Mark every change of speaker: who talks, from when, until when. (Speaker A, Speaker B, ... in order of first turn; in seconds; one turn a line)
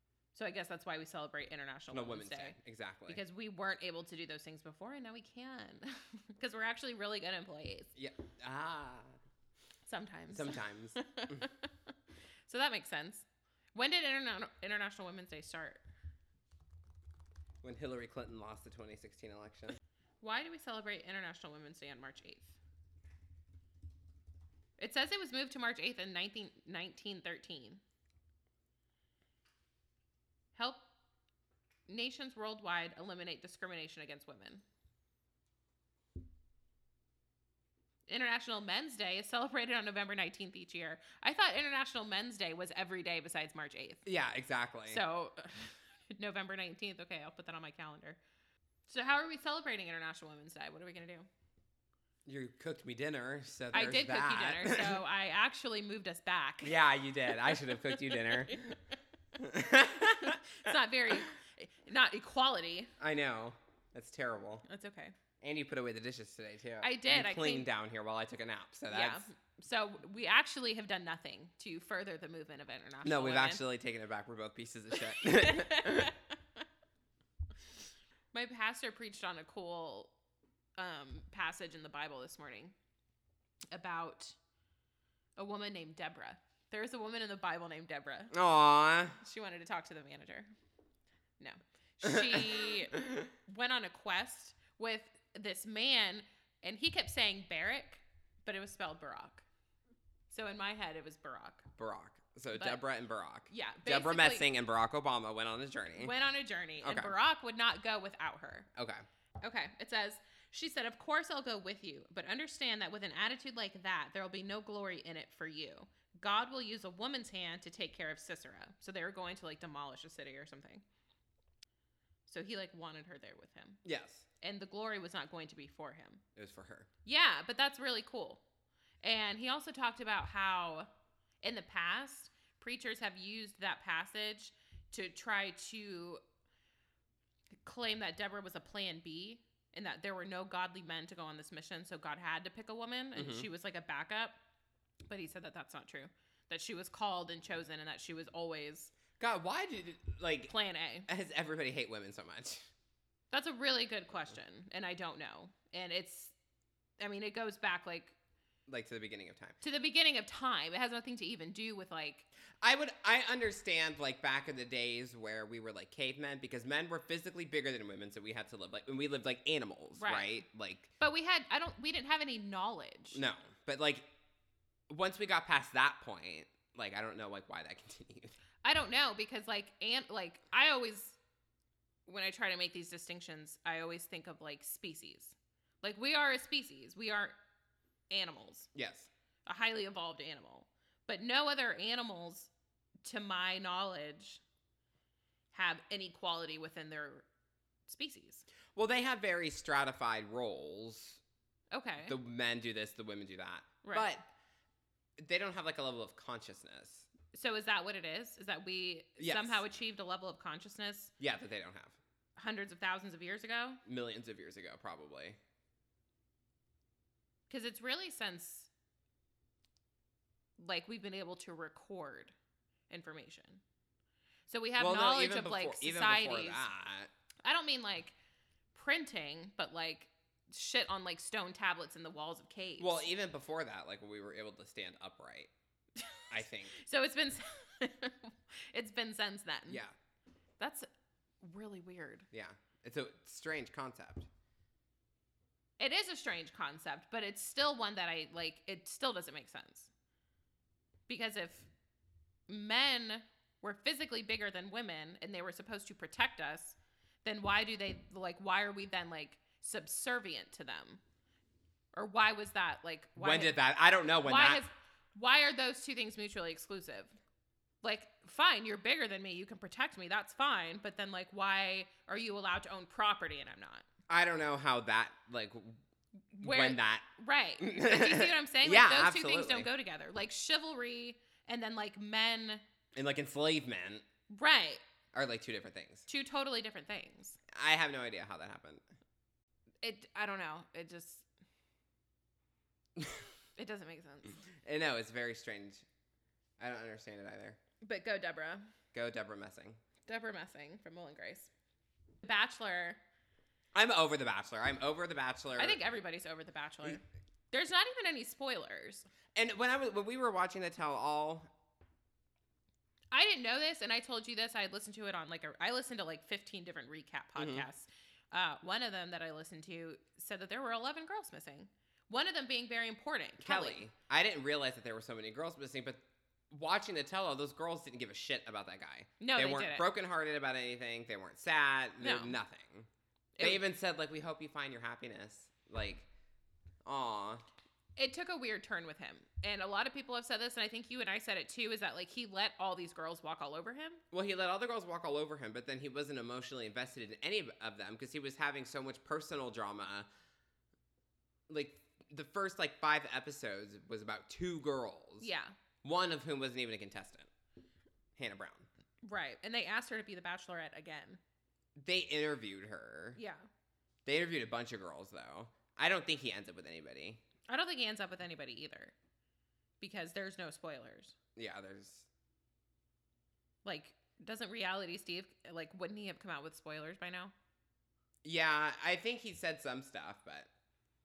Speaker A: 0.3-2.6
Speaker B: 1.9-3.2
Speaker A: 3.1-7.9
Speaker B: 8.0-9.2
Speaker A: 9.9-11.9
Speaker B: 10.3-11.5
Speaker A: 12.5-15.8
Speaker B: 17.6-19.8
Speaker A: 20.2-22.6
Speaker A: 24.8-27.8
Speaker A: 30.6-30.9
Speaker A: 31.9-34.6
Speaker A: 38.1-44.0
Speaker B: 44.1-45.0
Speaker A: 44.9-48.2
Speaker A: 48.9-51.3
Speaker B: 52.2-55.0
Speaker A: 53.7-58.6
Speaker B: 56.6-58.8
Speaker B: 59.4-60.7
Speaker A: 60.0-62.9
Speaker B: 63.0-64.7
Speaker A: 64.7-65.2
Speaker B: 65.4-69.3
Speaker A: 66.8-67.7
Speaker A: 68.9-73.6
Speaker B: 73.0-76.1
Speaker A: 75.1-76.6
Speaker A: 78.3-80.1
Speaker A: 80.8-82.8
Speaker A: 83.7-84.4
Speaker A: 85.4-88.4
Speaker B: 88.3-89.2
Speaker A: 89.2-90.5
Speaker A: 91.4-99.5
Speaker B: 92.0-93.0
Speaker A: 100.3-101.7
Speaker B: 101.8-106.1
Speaker A: 102.5-102.8
Speaker A: 103.5-104.5
Speaker A: 106.0-108.7
Speaker B: 106.8-107.1
Speaker B: 108.8-109.0
Speaker A: 109.4-120.8
Speaker A: 122.3-123.8
Speaker B: 123.8-124.3
Speaker A: 124.4-126.2
Speaker B: 126.4-126.9
Speaker A: 127.0-128.4
Speaker A: 129.0-130.9
Speaker A: 131.4-136.2
Speaker A: 137.6-144.4
Speaker B: 143.2-143.5
Speaker A: 145.1-148.9
Speaker B: 149.2-150.5
Speaker A: 150.5-151.1
Speaker B: 151.1-152.7
Speaker A: 153.3-156.3
Speaker A: 157.0-158.2
Speaker B: 158.7-159.6
Speaker A: 159.6-162.3
Speaker B: 162.6-170.9
Speaker A: 170.0-170.4
Speaker A: 171.0-173.2
Speaker B: 173.1-174.1
Speaker B: 174.9-178.3
Speaker A: 178.6-181.2
Speaker A: 182.1-187.4
Speaker A: 188.1-188.7
Speaker B: 188.8-189.1
Speaker A: 189.5-192.5
Speaker A: 193.0-194.4
Speaker A: 195.5-197.2
Speaker A: 197.9-198.5
Speaker B: 198.8-201.2
Speaker A: 201.7-202.2
Speaker B: 202.1-204.2
Speaker A: 203.8-204.1
Speaker B: 205.2-207.1
Speaker A: 207.3-211.1
Speaker B: 209.2-209.6
Speaker B: 211.2-212.0
Speaker A: 212.4-213.8
Speaker B: 213.9-215.4
Speaker A: 217.5-218.7
Speaker A: 220.6-222.3
Speaker A: 222.9-223.6
Speaker A: 224.5-226.7
Speaker B: 224.8-227.1
Speaker A: 227.4-228.2
Speaker A: 228.7-233.0
Speaker B: 232.8-235.5
Speaker A: 236.0-239.8
Speaker B: 236.3-236.8
Speaker B: 239.7-239.9
Speaker A: 240.6-240.9
Speaker A: 241.4-242.3
Speaker B: 242.3-244.3
Speaker A: 245.8-249.9
Speaker A: 251.1-251.7
Speaker A: 252.5-261.0
Speaker A: 261.9-263.6
Speaker B: 263.2-264.6
Speaker A: 264.2-267.2
Speaker A: 267.8-273.9
Speaker B: 274.1-275.8
Speaker A: 276.3-282.6
Speaker B: 276.4-277.1
Speaker B: 277.6-279.7
Speaker B: 282.9-284.1
Speaker A: 284.3-284.8
Speaker B: 285.1-286.1
Speaker A: 286.1-287.4
Speaker B: 287.5-288.8
Speaker A: 289.8-291.2
Speaker B: 293.0-293.2
Speaker A: 293.6-294.4
Speaker B: 294.6-295.9
Speaker B: 296.6-297.6
Speaker A: 297.8-298.7
Speaker B: 298.9-299.8
Speaker A: 300.1-301.5
Speaker A: 302.2-303.0
Speaker B: 303.7-305.8
Speaker A: 305.6-309.1
Speaker B: 309.4-311.5
Speaker A: 313.1-323.8
Speaker B: 317.4-317.7
Speaker B: 323.4-332.9
Speaker A: 329.2-329.9
Speaker A: 332.0-332.4
Speaker A: 333.4-333.6
Speaker B: 333.4-336.1
Speaker B: 336.9-337.4
Speaker A: 338.0-344.0
Speaker B: 344.1-350.1
Speaker B: 351.5-355.3
Speaker A: 355.2-355.6
Speaker B: 355.8-357.3
Speaker B: 358.2-358.7
Speaker A: 359.1-361.2
Speaker B: 361.8-363.2
Speaker A: 363.2-363.4
Speaker B: 364.1-367.2
Speaker A: 367.5-368.9
Speaker A: 369.8-371.2
Speaker B: 371.4-372.1
Speaker A: 373.6-377.3
Speaker B: 378.2-380.5